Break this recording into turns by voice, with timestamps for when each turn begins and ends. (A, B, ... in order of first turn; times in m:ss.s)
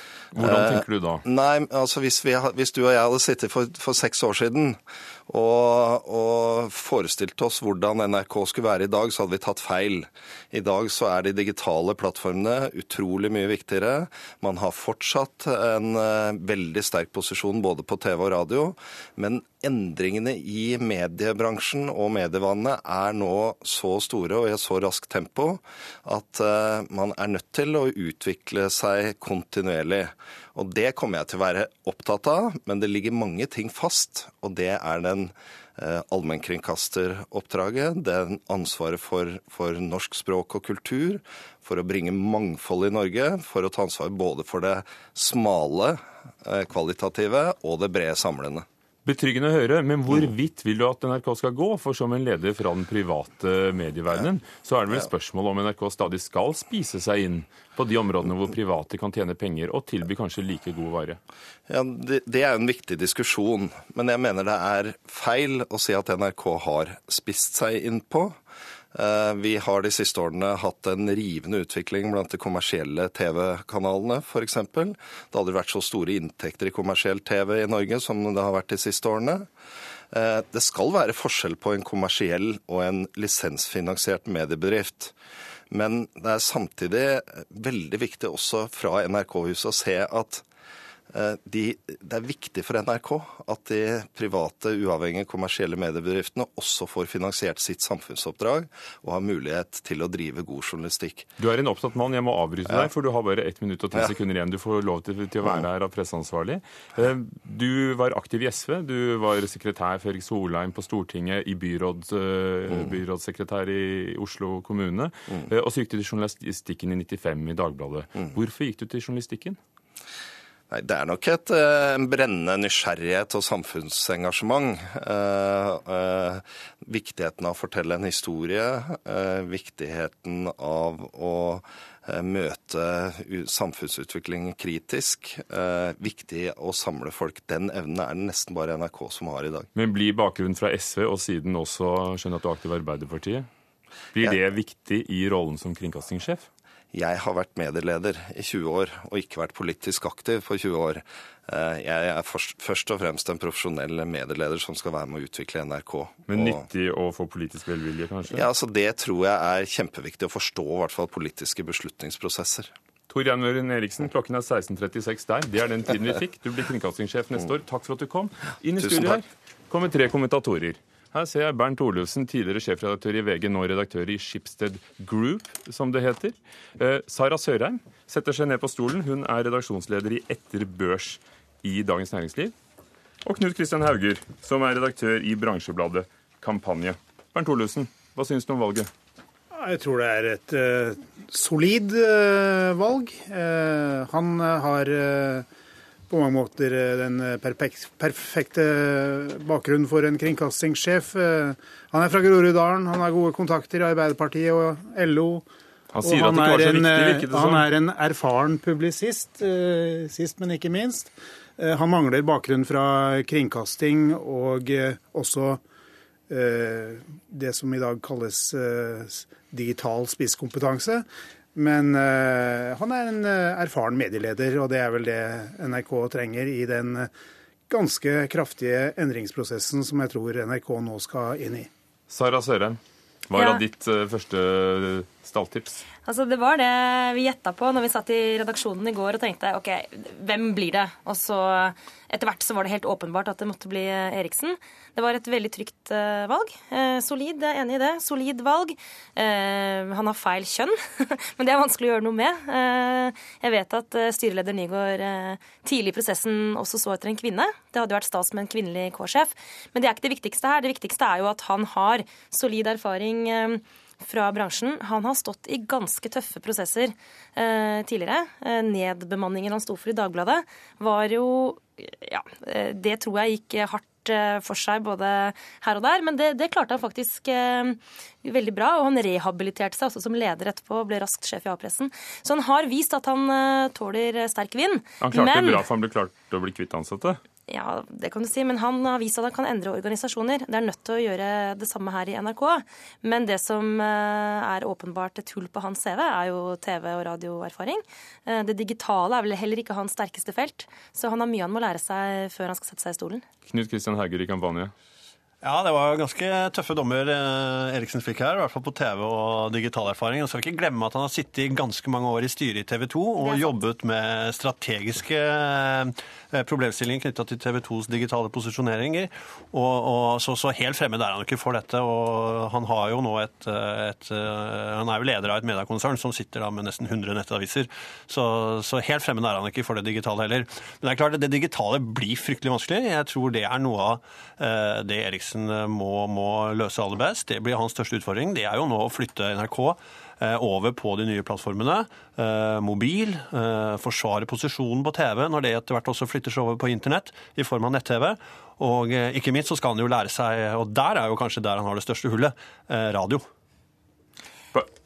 0:00.3-0:01.2 A
0:00.4-0:48.6 B
0:49.0-1:01.2 A
1:01.7-1:08.4 B
1:08.9-1:19.5 B
1:20.1-1:25.1 B
1:25.7-1:30.4 B
1:31.1-1:41.3 B
1:41.4-1:59.6 A
2:00.7-2:19.7 B
2:19.7-2:23.5 A
2:24.1-2:26.5 A
2:26.9-2:36.6 B
2:36.3-2:38.4 A
2:38.3-2:42.7 B
2:43.1-3:02.5 A
3:03.2-3:08.9 A
3:09.5-3:15.4 C
3:16.1-3:25.4 C
3:25.9-3:27.6 A
3:26.0-3:35.6 C
3:36.3-3:47.1 C
3:47.7-3:51.7 C
3:52.1-3:55.8 A
3:56.0-4:45.6 D
4:45.0-4:47.2 A
4:47.5-5:03.2 D
5:03.5-5:04.7 A
5:05.4-5:53.2 E
5:13.2-5:13.5 D